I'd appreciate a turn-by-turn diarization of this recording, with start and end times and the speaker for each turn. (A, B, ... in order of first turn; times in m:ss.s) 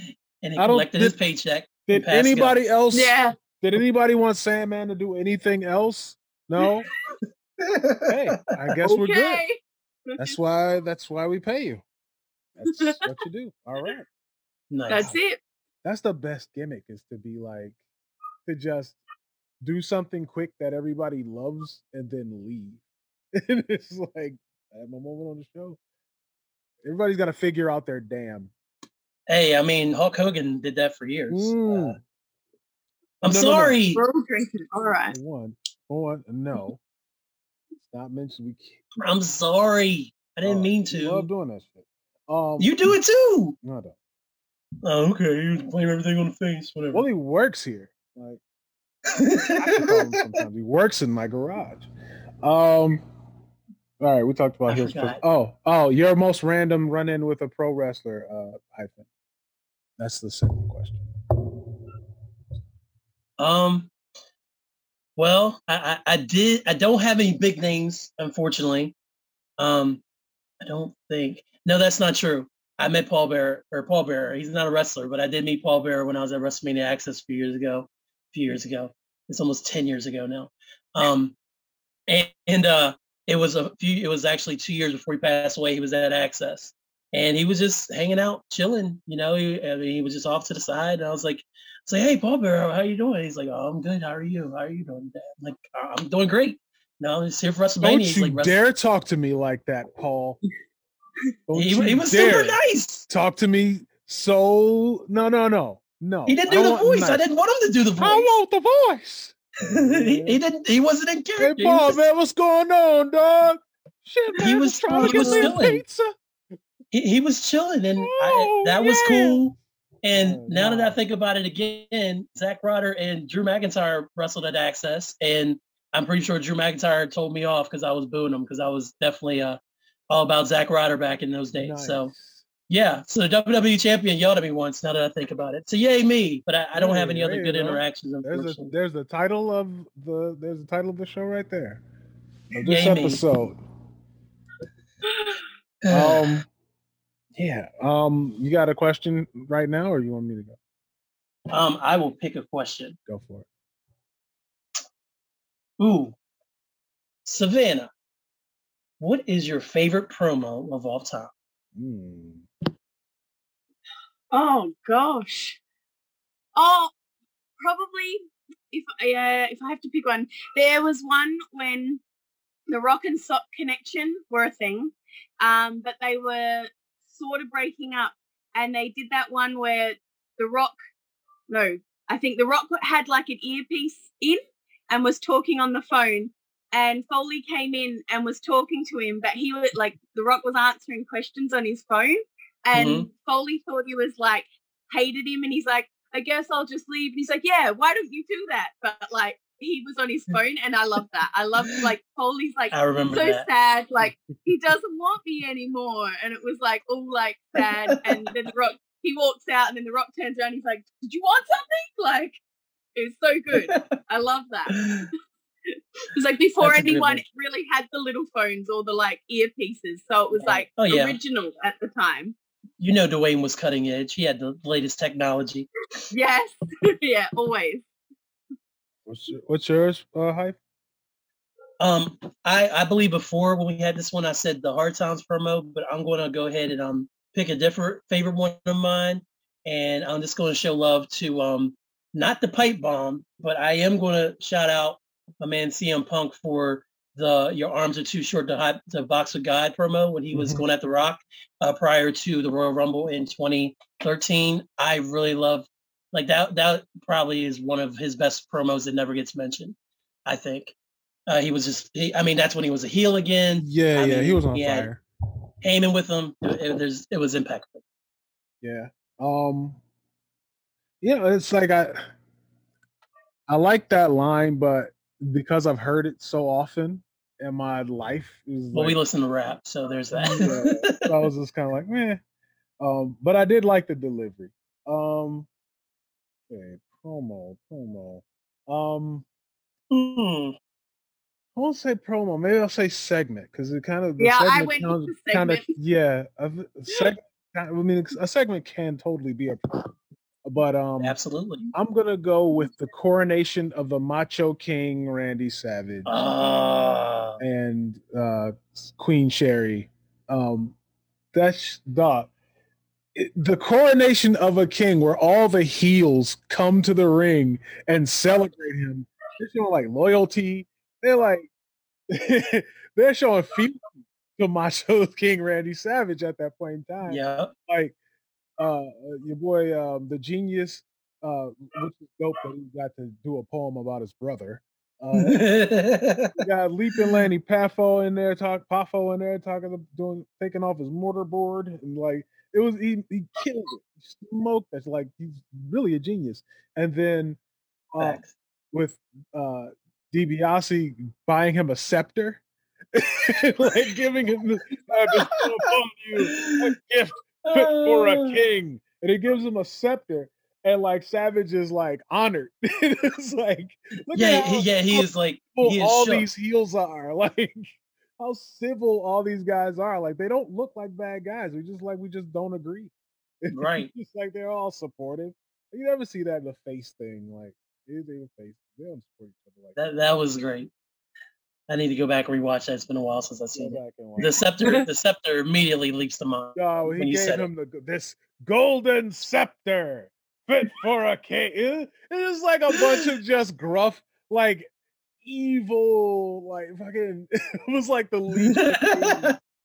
0:00.4-0:02.6 A
0:00.6-0:01.2 B
0:01.9-0:06.9 B
0:02.9-0:03.3 C
0:07.6-0:08.2 A
0:08.0-0:09.4 B
0:08.8-0:09.6 C
0:10.1-0:10.4 C
0:10.2-0:11.8 B
0:12.6-0:14.1 B
0:12.7-0:13.0 C
0:14.7-0:15.0 A
0:14.9-0:15.4 C
0:15.8-0:17.8 B
0:18.4-0:19.0 B
0:19.6-0:22.8 B
0:23.3-0:25.8 B
0:26.8-0:28.5 B
0:29.3-0:32.0 A
0:31.3-0:32.0 B
0:33.2-0:34.0 A
0:33.2-0:33.8 B
0:33.9-0:35.1 C
0:35.1-0:36.8 B
0:37.8-0:38.8 B
0:39.0-0:41.3 A
0:40.4-0:43.0 B
0:42.6-0:43.5 A
0:43.6-0:44.0 B
0:44.8-0:47.0 A
0:46.9-0:48.4 B
0:49.1-0:50.2 A
0:49.5-0:51.8 B
0:52.4-0:53.0 B
0:54.0-0:59.0 B
0:54.7-0:55.2 A
1:00.0-1:01.6 B
1:03.4-1:03.9 A
1:05.2-1:08.9 A
1:09.6-1:10.0 A
1:10.6-1:21.3 A
1:22.1-1:38.6 A
1:37.8-1:40.4 B
1:41.5-1:47.2 B
1:41.5-1:43.0 A
1:46.2-1:48.3 A
1:48.0-1:50.4 B
1:49.6-1:52.0 A
1:51.4-1:56.1 B
1:54.4-1:55.8 A
1:56.9-2:09.6 A
1:58.0-1:59.4 B
2:00.1-2:01.0 B
2:10.1-2:12.1 A
2:11.5-2:12.4 B
2:12.7-2:18.7 A
2:16.7-2:21.8 B
2:22.5-2:23.6 B
2:22.6-2:23.2 A
2:25.8-2:26.4 A
2:25.9-2:26.5 B
2:27.3-2:30.6 B
2:31.5-2:33.0 A
2:33.1-2:33.5 B
2:35.8-2:36.1 A
2:37.2-2:37.9 A
2:39.0-2:41.3 A
2:41.7-2:42.5 B
2:44.3-2:45.6 C
2:46.6-2:46.9 C
2:47.6-2:48.2 C
2:48.7-2:52.0 C
2:52.7-3:00.7 C
3:01.5-3:32.4 C
3:12.7-3:13.1 A
3:22.7-3:23.5 A
3:32.9-3:34.8 C
3:33.5-3:33.9 A
3:34.7-3:35.1 A
3:36.1-3:42.4 C
3:36.6-3:37.2 A
3:40.4-3:41.2 A
3:42.8-3:45.7 A
3:46.1-3:47.8 C
3:49.0-3:50.6 B
3:51.8-4:19.7 A
4:10.3-4:10.6 B
4:20.2-4:20.7 A
4:21.3-4:24.9 A
4:23.6-4:25.0 B
4:25.6-4:27.8 A
4:28.6-4:29.8 B
4:31.0-4:32.1 B
4:33.5-4:39.0 B
4:38.7-4:41.0 A
4:40.1-4:42.2 B
4:42.8-4:45.5 B
4:46.5-4:49.2 B
4:49.9-4:50.5 A
4:51.5-4:59.9 B
4:54.2-4:55.7 C
5:00.4-5:01.2 B
5:01.0-5:01.6 A
5:01.7-5:06.2 B
5:06.0-5:07.4 A
5:07.4-5:10.8 B
5:11.3-5:12.3 B
5:13.1-5:21.5 B
5:22.1-5:23.8 B
5:24.4-5:27.9 B
5:27.0-5:27.5 A
5:28.6-5:35.5 B
5:35.1-5:36.4 A
5:36.4-5:47.4 B
5:47.9-5:48.2 B
5:48.0-5:48.3 A
5:48.7-5:52.4 B
5:52.9-6:19.8 B
5:55.6-5:56.6 A
5:57.4-5:58.4 A
6:04.1-6:06.3 A
6:13.5-6:13.9 A
6:19.8-6:20.7 A
6:21.7-6:27.5 A
6:23.5-6:24.3 B
6:26.6-6:34.7 B
6:35.2-6:39.4 B
6:38.4-6:39.3 A